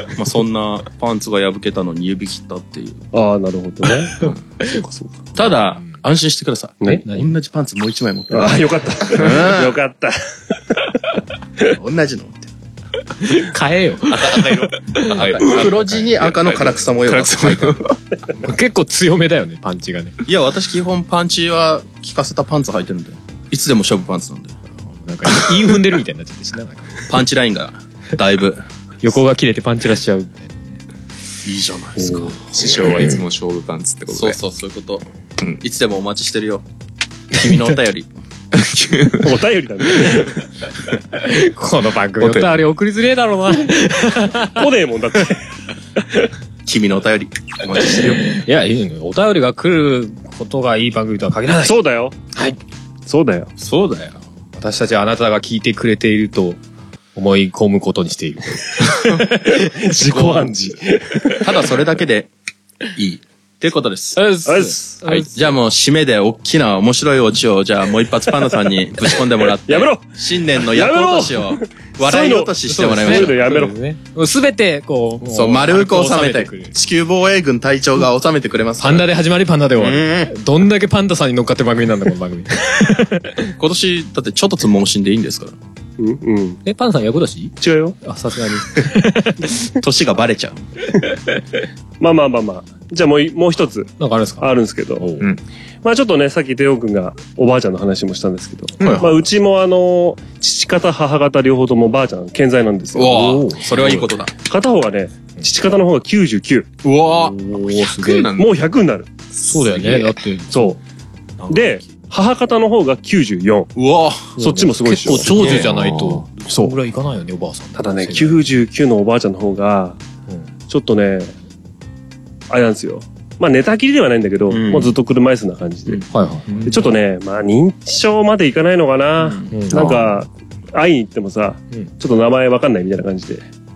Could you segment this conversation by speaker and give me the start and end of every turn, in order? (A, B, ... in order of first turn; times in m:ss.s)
0:00.2-0:03.0 A
0:03.1-0:05.2 B
0:05.4-0:09.7 A
0:06.9-0:07.3 C
0:08.3-0:10.2 B
0:11.7-0:12.5 A
0:13.2-0:16.0 C
0:14.1-0:18.0 A
0:15.4-0:17.9 D
0:18.3-0:20.2 C
0:20.2-0:24.6 A
0:24.9-0:27.0 C
0:25.3-0:25.6 A
0:27.1-0:28.6 A
0:29.0-0:30.8 C
0:31.4-0:32.7 A
0:32.0-0:32.3 B
0:32.5-0:34.4 D
0:34.1-0:36.6 A
0:37.3-0:38.1 A
0:38.6-0:39.3 D
0:39.2-0:40.4 B
0:41.1-0:44.6 C
0:42.2-0:42.6 D
0:44.6-0:45.4 B
0:46.0-0:46.3 B
0:46.7-0:48.4 A
0:48.0-0:51.8 C
0:51.6-0:52.2 B
0:53.1-0:53.5 B
0:53.6-0:54.2 A
0:54.6-0:56.6 C
0:57.2-0:59.4 C
0:59.4-1:01.4 B
1:00.1-1:00.5 A
1:01.3-1:02.3 A
1:02.9-1:04.2 A
1:04.2-1:05.5 C
1:04.5-1:05.2 B
1:05.3-1:13.5 A
1:09.7-1:13.8 B
1:12.7-1:16.7 C
1:15.2-1:19.1 A
1:18.8-1:23.5 C
1:19.8-1:20.3 A
1:23.6-1:25.6 A
1:26.0-1:26.6 B
1:26.6-1:29.5 C
1:27.6-1:28.0 B
1:29.8-1:30.6 A
1:32.0-1:35.1 B
1:34.0-1:35.3 C
1:35.8-1:43.3 B
1:38.8-1:39.1 A
1:42.9-1:44.3 A
1:43.1-1:44.1 C
1:43.9-1:46.7 B
1:46.8-1:48.5 A
1:47.1-1:48.3 C
1:48.4-1:49.1 B
1:49.4-1:50.7 C
1:49.5-1:50.2 A
1:50.5-1:50.8 B
1:51.4-1:51.9 A
1:51.5-1:53.7 B
1:53.8-1:54.4 A
1:54.4-1:55.5 B
1:54.4-1:58.4 C
1:55.1-1:56.7 A
1:55.4-1:56.1 D
1:57.8-2:00.0 B
2:00.7-2:01.4 B
2:02.5-2:06.0 B
2:04.5-2:05.0 A
2:06.1-2:06.9 C
2:06.7-2:13.5 B
2:09.2-2:10.1 A
2:09.5-2:10.1 C